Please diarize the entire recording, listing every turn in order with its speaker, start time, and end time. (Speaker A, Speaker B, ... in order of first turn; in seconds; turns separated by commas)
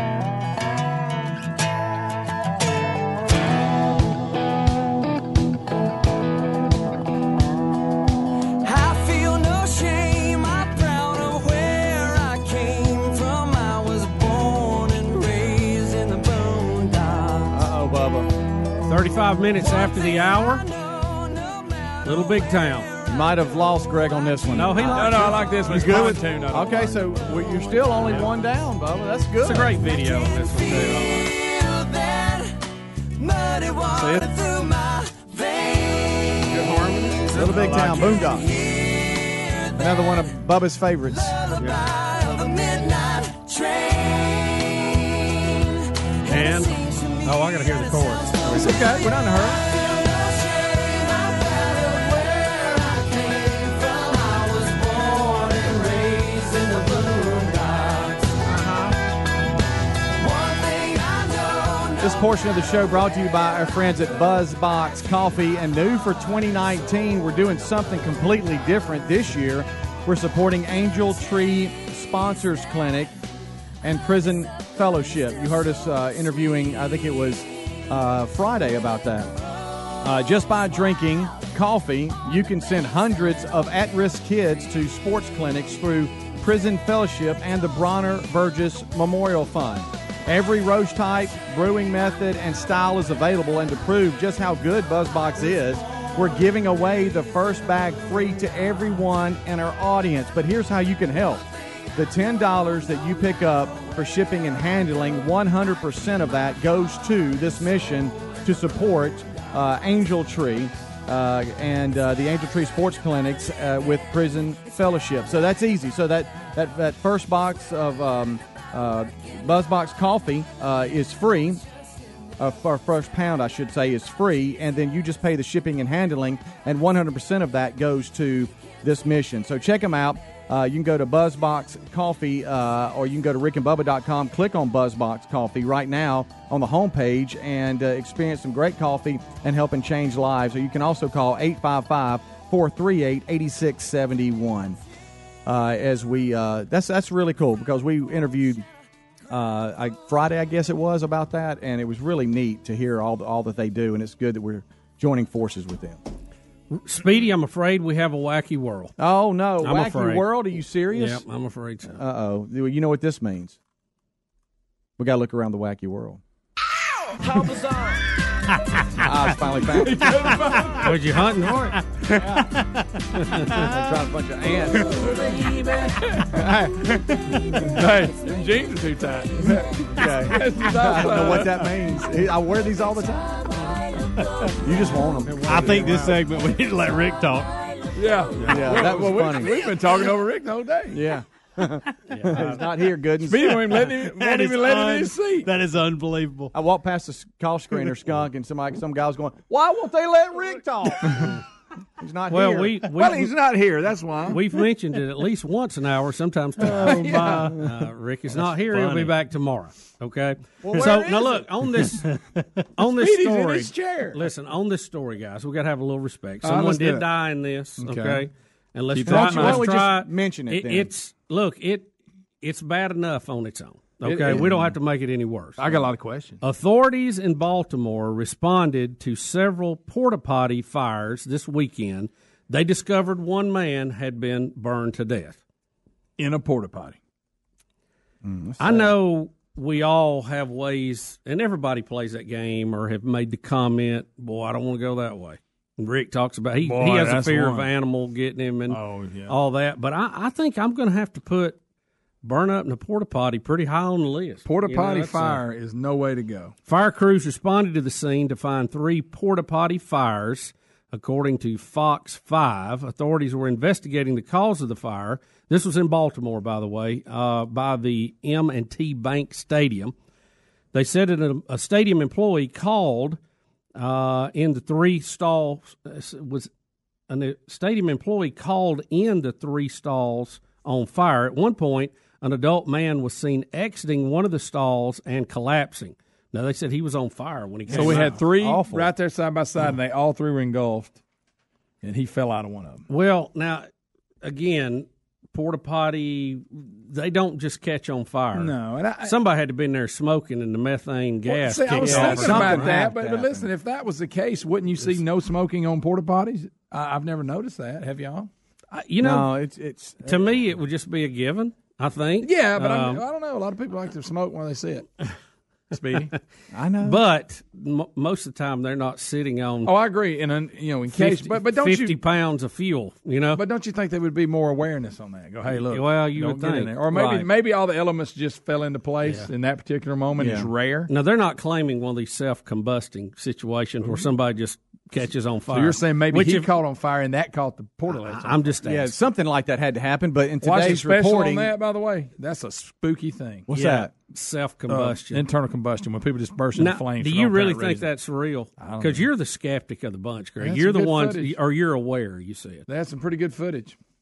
Speaker A: 8.6-17.5, Speaker B: 17.5-18.3, Speaker C: 18.9-20.6, Speaker A: 19.6-22.8, Speaker C: 22.0-22.9, Speaker B: 23.1-29.8, Speaker C: 24.5-25.4, Speaker D: 24.9-27.0, Speaker C: 29.4-31.3, Speaker A: 30.0-32.5, Speaker A: 33.2-36.6, Speaker C: 36.5-37.2, Speaker B: 37.3-38.5, Speaker E: 37.5-38.0, Speaker A: 38.2-39.9, Speaker B: 39.8-41.4, Speaker A: 41.3-45.7, Speaker A: 46.2-58.9, Speaker C: 46.3-48.5, Speaker B: 48.4-49.6, Speaker A: 60.2-62.3, Speaker B: 62.0-73.1, Speaker B: 73.8-79.3, Speaker B: 80.0-121.6, Speaker B: 122.4-144.8, Speaker B: 145.4-148.6, Speaker B: 149.3-156.0, Speaker C: 156.7-158.9, Speaker B: 159.0-161.2, Speaker C: 159.6-162.0, Speaker B: 161.9-163.6, Speaker B: 165.0-166.2, Speaker B: 169.0-170.4, Speaker D: 169.7-171.0, Speaker C: 170.8-171.8, Speaker B: 172.1-172.5, Speaker C: 173.2-173.5, Speaker B: 173.5-175.4, Speaker D: 176.0-176.4, Speaker B: 176.3-177.0, Speaker D: 177.7-182.0, Speaker B: 179.9-183.4, Speaker B: 184.6-186.1, Speaker D: 185.4-186.1, Speaker E: 185.4-187.5, Speaker D: 187.9-191.0, Speaker E: 188.4-188.9, Speaker B: 188.4-189.6, Speaker B: 190.9-193.6, Speaker E: 192.2-192.5, Speaker D: 193.2-195.5, Speaker E: 193.5-196.5, Speaker B: 196.5-201.3, Speaker B: 202.0-202.8, Speaker C: 202.3-203.3, Speaker D: 202.9-204.4, Speaker C: 204.3-212.2, Speaker D: 206.8-207.6, Speaker B: 210.6-211.3, Speaker D: 210.8-211.4, Speaker C: 212.8-225.9, Speaker D: 212.9-214.2, Speaker D: 216.4-217.1, Speaker D: 217.8-218.2, Speaker D: 218.9-219.8, Speaker B: 219.1-220.9, Speaker D: 224.0-224.7, Speaker D: 225.6-226.4, Speaker C: 226.4-235.4, Speaker D: 236.2-237.0, Speaker B: 238.2-238.9, Speaker C: 238.6-251.6, Speaker D: 246.6-247.7, Speaker D: 248.7-249.4, Speaker C: 252.2-255.4, Speaker D: 254.4-256.5, Speaker C: 256.7-269.9, Speaker C: 270.7-273.2, Speaker C: 273.7-276.5, Speaker C: 277.1-288.2, Speaker D: 287.7-291.0, Speaker B: 287.7-288.9, Speaker D: 291.8-292.8, Speaker C: 292.9-293.7, Speaker C: 294.2-302.8, Speaker D: 298.3-299.1, Speaker D: 301.3-308.3, Speaker B: 301.8-303.5, Speaker C: 308.7-309.3, Speaker B: 309.0-310.3, Speaker C: 310.0-313.0, Speaker D: 312.2-314.9, Speaker D: 315.7-316.1, Speaker B: 316.5-317.0, Speaker C: 316.8-319.7, Speaker D: 319.6-321.9, Speaker C: 320.9-323.4, Speaker D: 323.3-330.9, Speaker C: 325.6-327.0, Speaker B: 326.9-327.3, Speaker C: 329.0-329.3, Speaker B: 330.2-330.5, Speaker C: 330.9-336.5, Speaker D: 335.5-338.6, Speaker C: 337.9-338.9, Speaker B: 338.6-341.5, Speaker D: 340.4-343.5, Speaker B: 343.5-343.9, Speaker C: 343.5-345.2, Speaker D: 344.7-347.9, Speaker C: 346.6-352.6, Speaker D: 348.6-349.1, Speaker D: 350.4-351.4, Speaker D: 352.7-353.8